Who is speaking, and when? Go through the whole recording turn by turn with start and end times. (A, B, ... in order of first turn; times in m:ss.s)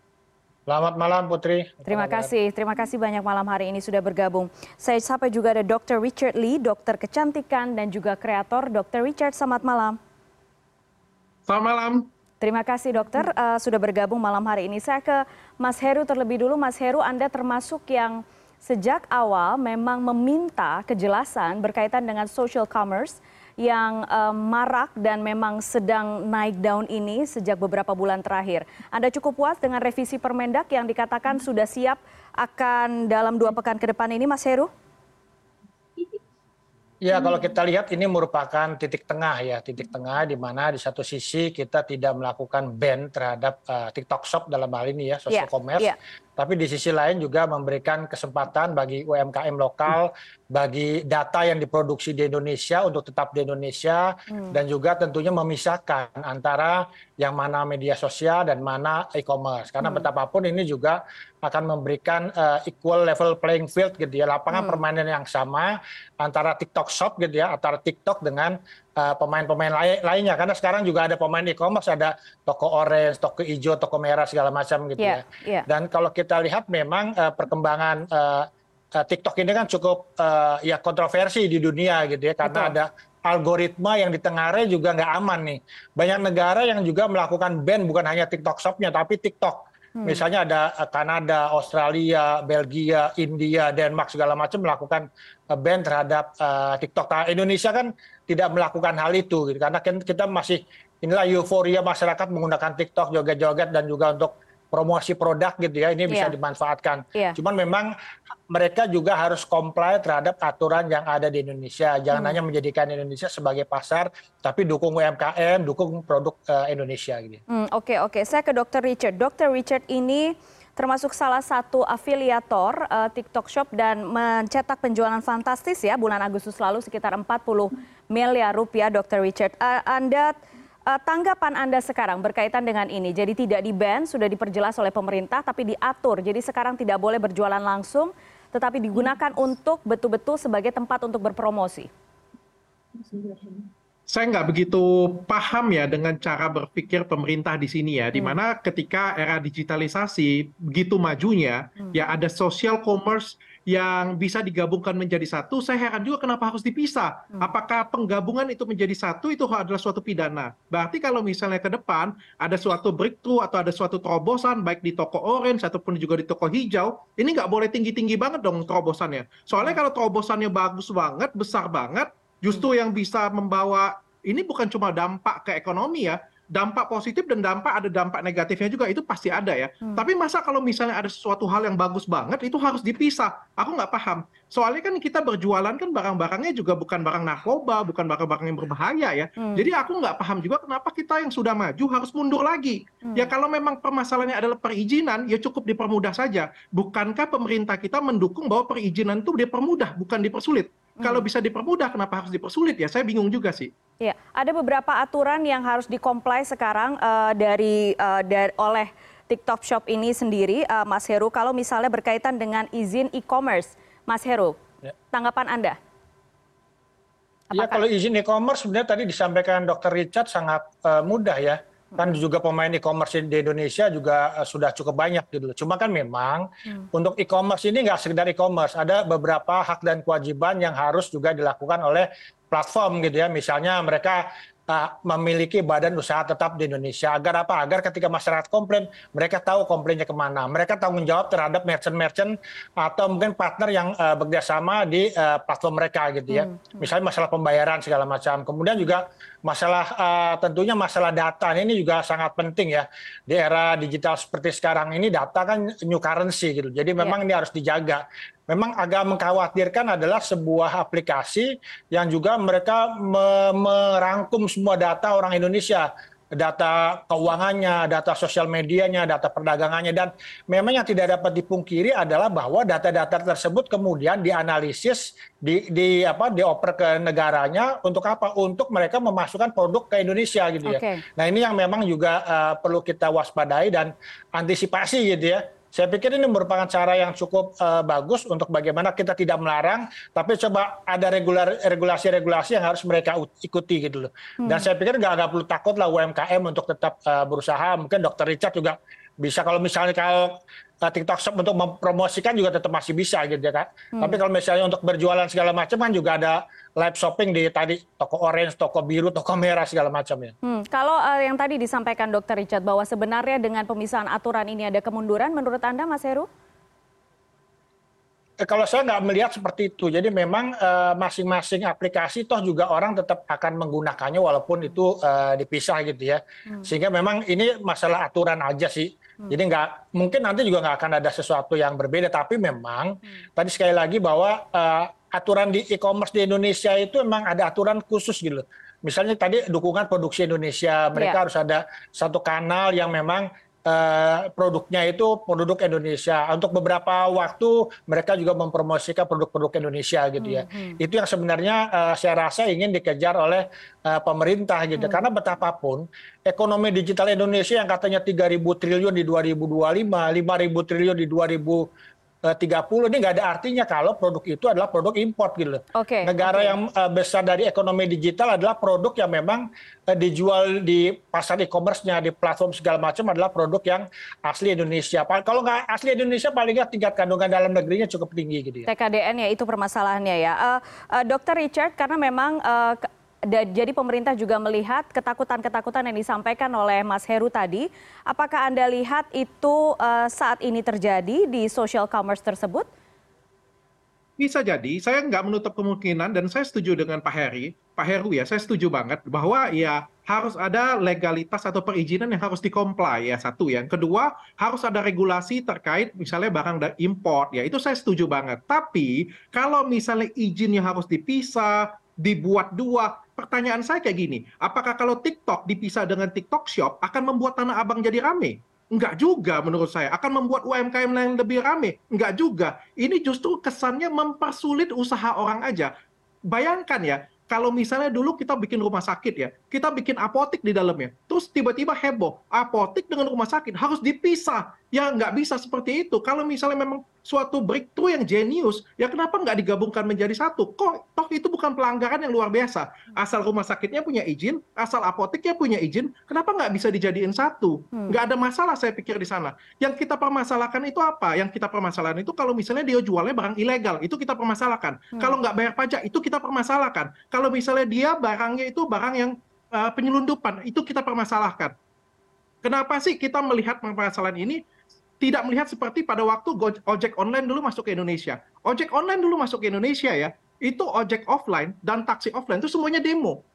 0:00.7-0:02.3 A
0:01.9-0:10.0 B
0:11.5-0:12.1 C
0:12.4-0:34.7 B
0:37.0-1:47.9 A
0:45.3-0:46.0 B
0:54.3-0:54.5 B
0:59.8-1:00.1 B
1:04.5-1:04.8 B
1:15.0-1:15.6 B
1:22.4-1:22.7 B
1:30.0-1:30.2 B
1:46.1-1:46.3 B
1:48.5-1:57.4 A
1:52.1-1:52.4 B
1:57.5-2:10.3 B
2:10.9-2:21.9 B
2:24.1-3:23.7 C
3:09.4-3:09.6 B
3:13.0-3:13.3 B
3:24.0-3:34.6 B
3:35.1-3:35.8 B
3:37.5-3:37.8 B
3:37.5-5:10.3 A
4:06.3-4:06.9 B
4:40.6-4:41.0 B
4:54.4-4:54.7 B
5:03.9-5:04.2 B
5:10.4-5:16.3 B
5:18.4-6:01.6 A
5:50.2-5:50.8 B
6:02.3-6:18.7 A
6:05.7-6:06.5 B
6:18.6-6:32.7 B
6:34.2-7:05.7 C
7:06.3-7:41.5 C
7:42.4-7:44.4 C
7:45.0-7:53.2 C